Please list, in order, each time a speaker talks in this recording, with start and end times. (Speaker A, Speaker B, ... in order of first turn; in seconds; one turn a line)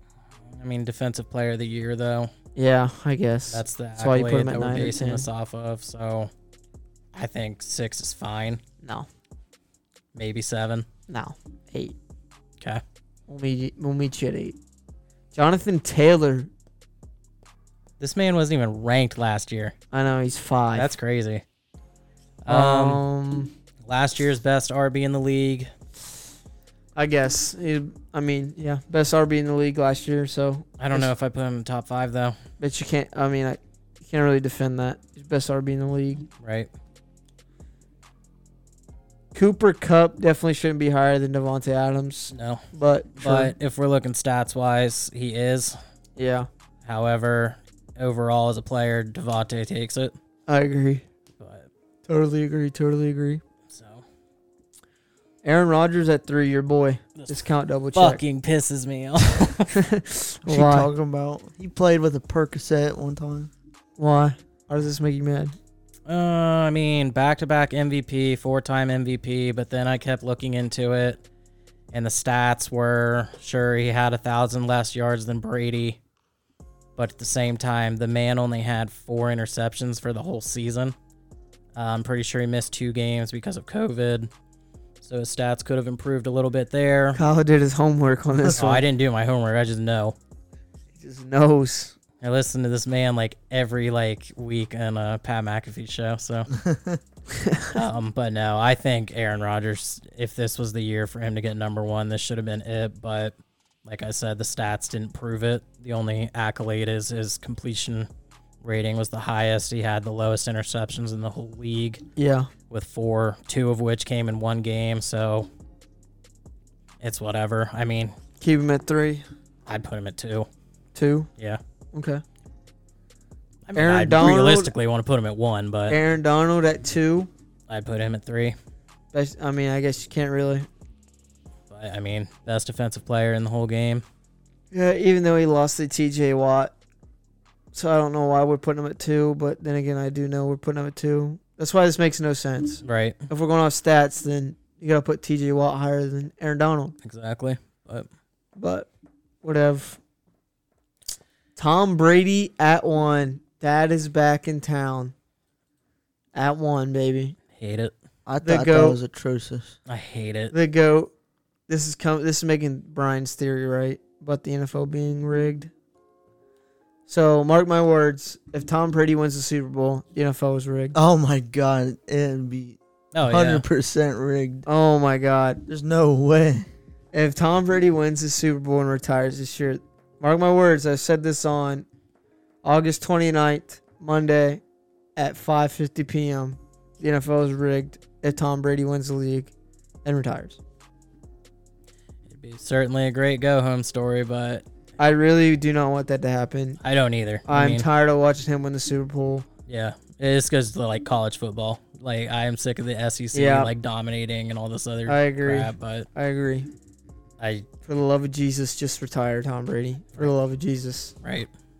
Speaker A: 0.5-2.3
Speaker B: 2.5-5.3
Speaker A: 3.5-6.3
Speaker A: 7.1-8.6
Speaker A: 10.1-10.8
Speaker B: 11.1-11.9
Speaker B: 13.3-14.6
Speaker B: 15.3-16.5
Speaker A: 18.0-19.7
Speaker B: 19.9-20.9
Speaker A: 20.7-21.4
Speaker A: 22.4-23.0
Speaker B: 22.5-23.5
Speaker A: 23.8-25.7
Speaker B: 26.9-31.1
Speaker A: 30.8-32.4
Speaker B: 32.6-36.3
Speaker A: 36.4-36.7
Speaker B: 39.3-43.5
Speaker A: 42.3-42.7
Speaker A: 43.2-45.8
Speaker B: 46.1-46.5
Speaker A: 46.8-50.1
Speaker B: 50.5-51.0
Speaker A: 51.4-51.7
Speaker B: 52.0-53.4
Speaker A: 53.7-54.0
Speaker B: 55.4-58.2
Speaker A: 57.1-59.7
Speaker B: 59.7-60.9
Speaker C: 60.5-63.5
Speaker B: 64.0-65.5
Speaker A: 66.1-71.2
Speaker A: 71.9-76.0
Speaker A: 77.0-80.9
Speaker A: 81.7-84.3
Speaker A: 85.0-87.2
Speaker B: 87.1-88.8
Speaker A: 88.5-90.2
Speaker B: 91.0-91.9
Speaker A: 92.2-96.5
Speaker C: 96.5-97.0
Speaker B: 97.3-97.8
Speaker A: 97.7-108.1
Speaker A: 108.6-112.0
Speaker B: 112.2-112.5
Speaker A: 112.7-115.5
Speaker A: 117.0-118.1
Speaker B: 118.4-119.2
Speaker A: 119.7-120.5
Speaker B: 120.9-121.3
Speaker B: 121.9-122.2
Speaker A: 123.7-126.0
Speaker B: 123.7-124.7
Speaker B: 125.9-127.3
Speaker A: 127.7-128.6
Speaker B: 129.1-130.7
Speaker A: 131.7-134.0
Speaker B: 134.7-136.7
Speaker B: 137.7-146.9
Speaker A: 142.8-143.2
Speaker A: 147.0-148.1
Speaker B: 148.6-148.9
Speaker B: 149.4-150.0
Speaker B: 151.6-155.1
Speaker B: 156.3-157.4
Speaker A: 157.5-157.9
Speaker C: 158.3-159.8
Speaker B: 158.4-159.0
Speaker A: 159.9-160.5
Speaker B: 160.5-161.1
Speaker B: 161.7-165.7
Speaker B: 167.1-170.9
Speaker C: 170.9-174.7
Speaker A: 173.1-173.6
Speaker B: 174.7-175.6
Speaker C: 175.7-176.7
Speaker B: 177.1-181.8
Speaker B: 182.6-184.6
Speaker B: 185.2-189.5
Speaker B: 190.0-190.6
Speaker A: 192.3-194.6
Speaker B: 195.0-196.8
Speaker A: 196.8-197.8
Speaker B: 197.5-199.5
Speaker A: 199.7-206.1
Speaker B: 203.3-203.7
Speaker B: 205.1-206.7
Speaker A: 207.4-207.7
Speaker B: 207.8-211.1
Speaker A: 211.2-211.5